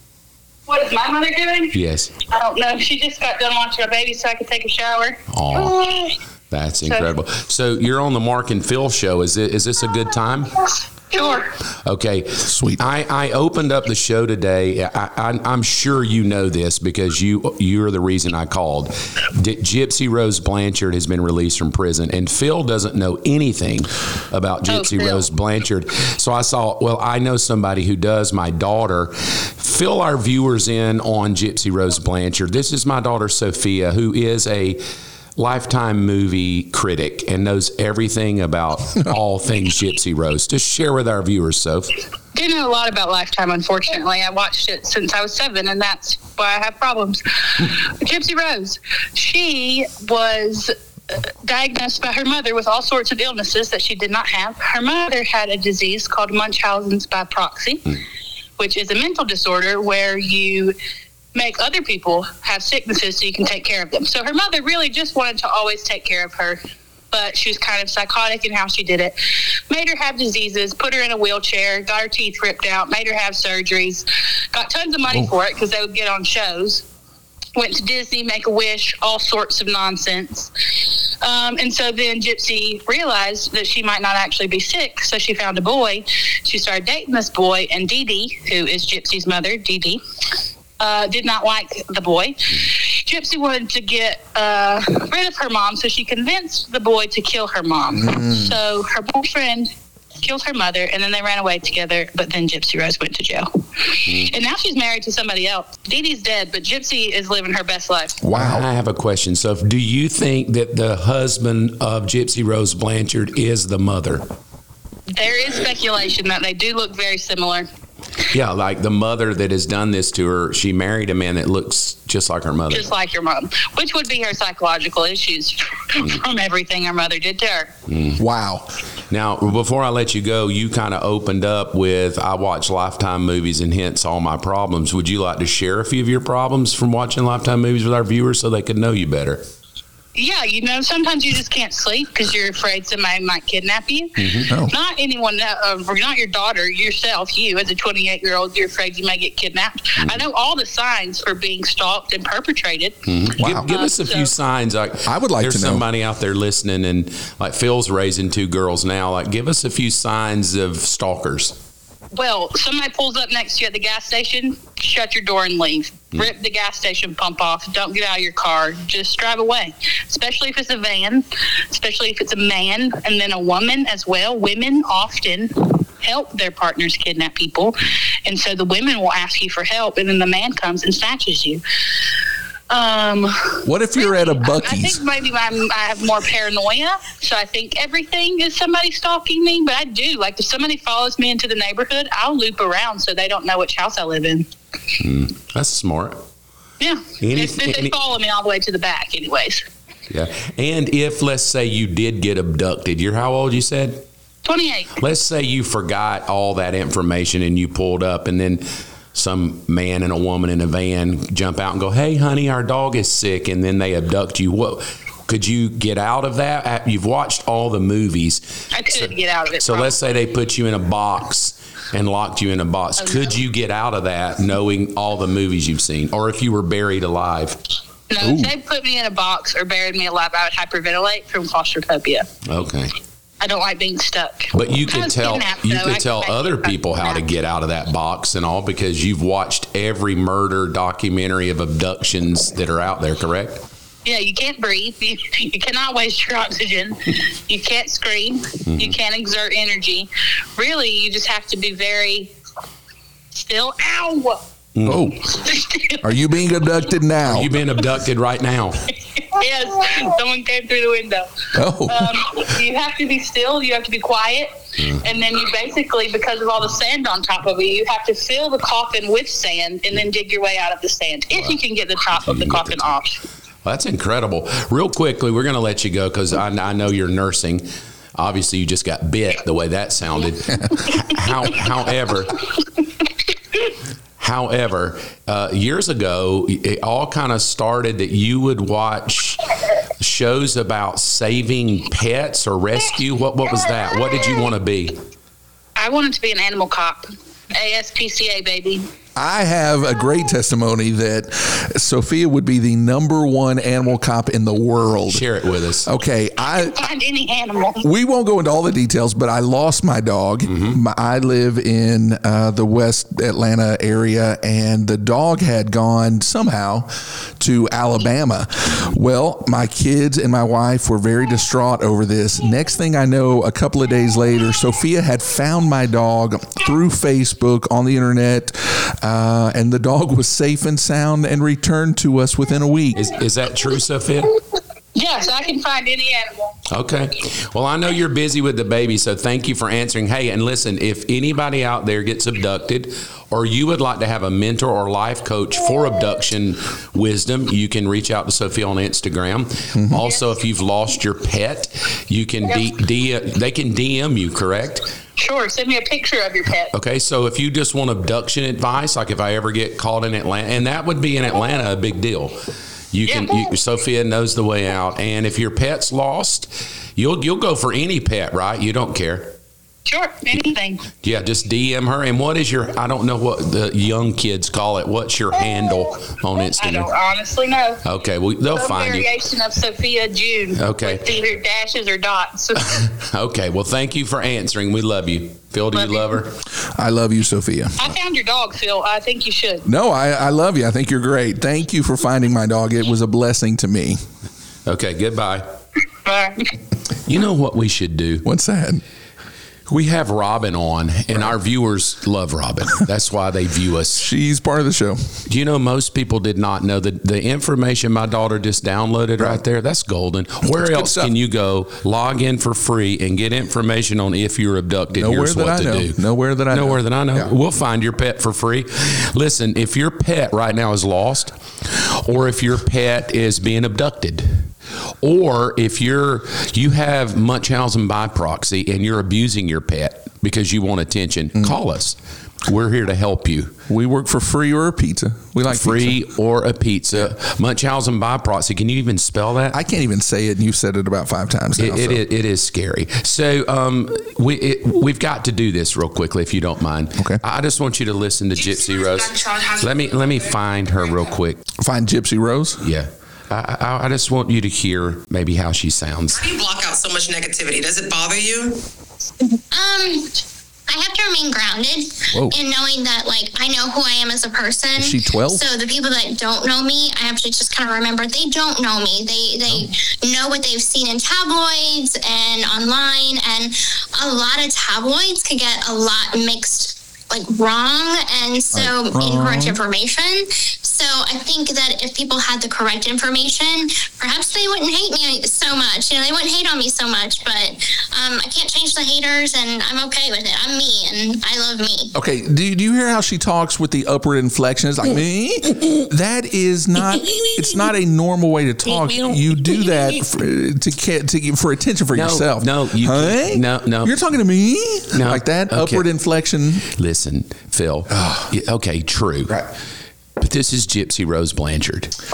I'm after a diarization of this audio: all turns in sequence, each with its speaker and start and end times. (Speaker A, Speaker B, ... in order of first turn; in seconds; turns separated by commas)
Speaker A: 0.7-1.8, Speaker B: 1.7-2.1, Speaker A: 2.3-6.2, Speaker B: 5.3-5.8, Speaker B: 6.5-10.6, Speaker A: 11.1-11.5, Speaker B: 11.8-34.8, Speaker C: 12.4-12.8, Speaker A: 24.7-25.2, Speaker B: 35.4-41.9, Speaker A: 42.4-57.9, Speaker A: 58.6-60.8, Speaker A: 61.4-66.6, Speaker A: 67.1-69.2, Speaker A: 69.7-76.8, Speaker A: 77.6-80.5, Speaker A: 81.2-90.0, Speaker A: 90.8-108.2, Speaker C: 97.9-98.6, Speaker C: 108.2-108.7, Speaker B: 108.3-114.3, Speaker A: 115.1-117.7, Speaker B: 118.3-122.9, Speaker A: 122.7-127.7, Speaker B: 127.9-128.2, Speaker C: 128.2-128.7, Speaker B: 129.1-139.4, Speaker A: 140.2-144.2, Speaker B: 144.2-144.5, Speaker C: 144.5-144.7, Speaker A: 144.7-153.0, Speaker B: 153.1-161.6, Speaker C: 153.4-153.7, Speaker A: 153.7-154.3, Speaker C: 155.1-155.8, Speaker A: 162.1-181.6, Speaker A: 182.7-194.5, Speaker C: 183.7-185.0, Speaker B: 195.0-196.2, Speaker A: 196.8-199.7, Speaker B: 197.2-198.0, Speaker B: 200.1-204.1, Speaker A: 204.4-204.9, Speaker B: 205.0-227.6, Speaker A: 218.7-220.0, Speaker A: 223.0-223.3, Speaker A: 228.1-232.3, Speaker C: 228.2-228.5, Speaker B: 232.4-232.9, Speaker A: 233.4-237.2, Speaker B: 234.5-243.6, Speaker A: 244.1-252.3, Speaker B: 248.7-248.9, Speaker A: 253.3-254.4, Speaker B: 254.8-255.1, Speaker C: 254.8-255.2, Speaker A: 255.3-256.0, Speaker C: 256.0-257.5, Speaker B: 257.2-258.9, Speaker A: 259.3-261.3, Speaker C: 261.6-262.3, Speaker A: 261.9-273.2, Speaker B: 264.8-265.0, Speaker B: 272.3-272.8, Speaker B: 273.6-282.4, Speaker B: 284.2-289.4, Speaker B: 290.0-295.0, Speaker A: 295.8-298.9, Speaker C: 299.2-305.2, Speaker B: 305.1-305.9, Speaker C: 305.9-306.9, Speaker A: 306.5-307.8, Speaker C: 307.8-333.0, Speaker B: 310.5-310.8, Speaker B: 332.9-334.4, Speaker A: 334.9-336.6, Speaker B: 336.7-354.9, Speaker C: 349.8-350.0, Speaker A: 355.2-356.7, Speaker B: 356.7-362.4, Speaker B: 362.9-369.4, Speaker A: 363.1-363.4, Speaker A: 369.9-370.9, Speaker B: 371.0-376.9, Speaker A: 376.6-377.8, Speaker B: 377.8-379.1, Speaker A: 378.5-382.9, Speaker B: 380.6-381.1, Speaker B: 382.8-386.3, Speaker A: 385.7-386.2, Speaker C: 386.6-387.8, Speaker A: 387.8-389.7, Speaker C: 389.6-394.0, Speaker B: 394.7-395.5, Speaker A: 396.1-396.5, Speaker B: 397.1-398.3, Speaker C: 398.2-398.8, Speaker B: 399.7-404.1, Speaker C: 404.0-405.2, Speaker B: 405.3-424.5, Speaker C: 410.5-411.1, Speaker C: 414.9-417.3, Speaker B: 425.0-433.6, Speaker C: 433.7-436.0, Speaker B: 435.5-439.6, Speaker C: 439.5-442.0, Speaker B: 441.6-451.4, Speaker C: 447.0-447.2, Speaker A: 449.0-449.5, Speaker C: 451.6-452.6, Speaker B: 452.6-456.2, Speaker D: 456.1-458.6, Speaker E: 459.5-491.9, Speaker C: 462.1-462.4, Speaker C: 464.8-465.5, Speaker C: 478.5-479.6, Speaker C: 491.9-506.7, Speaker B: 501.9-504.0, Speaker B: 504.9-505.9, Speaker B: 506.7-509.4, Speaker C: 507.9-508.3, Speaker B: 510.2-511.9